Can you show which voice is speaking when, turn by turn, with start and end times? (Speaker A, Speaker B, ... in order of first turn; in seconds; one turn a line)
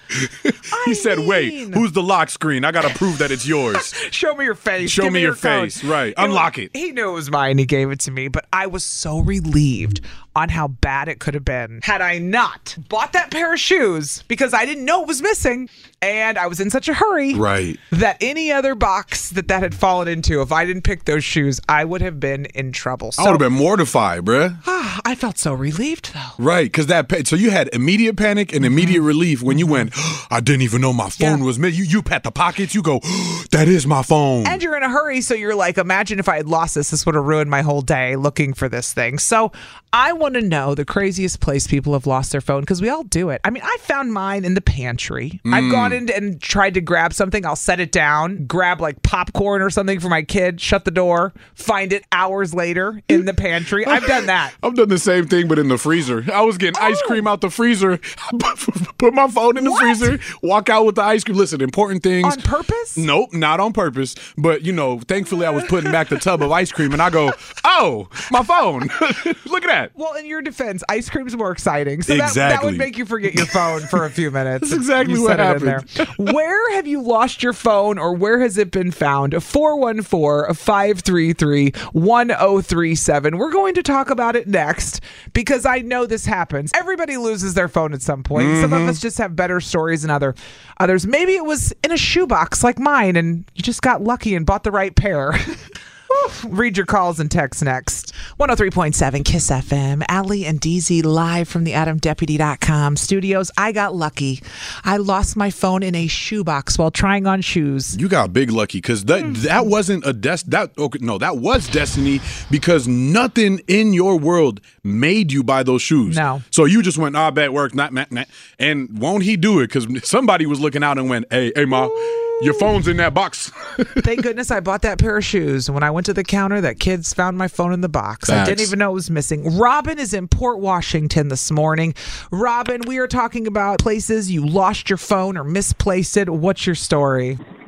Speaker A: 0.2-3.9
Speaker B: 0.7-1.8
Speaker B: 3.7-23.4
Speaker A: 4.8-6.7
Speaker A: 17.3-17.8
Speaker A: 23.2-24.6
Speaker B: 24.6-26.4
Speaker A: 26.4-34.6
Speaker B: 28.6-29.9
Speaker B: 34.4-54.5
Speaker A: 45.5-46.0
Speaker A: 53.8-62.4
Speaker B: 56.7-57.2
Speaker B: 59.6-60.1
Speaker B: 62.2-63.0
Speaker A: 63.0-69.9
Speaker B: 69.9-95.6
Speaker A: 72.1-74.0
Speaker A: 74.6-76.1
Speaker A: 88.3-89.0
Speaker B: 96.1-108.0
Speaker A: 107.9-124.0
Speaker B: 109.2-109.4
Speaker B: 116.1-116.4
Speaker B: 121.7-122.7
Speaker B: 124.0-137.4
Speaker A: 128.2-128.7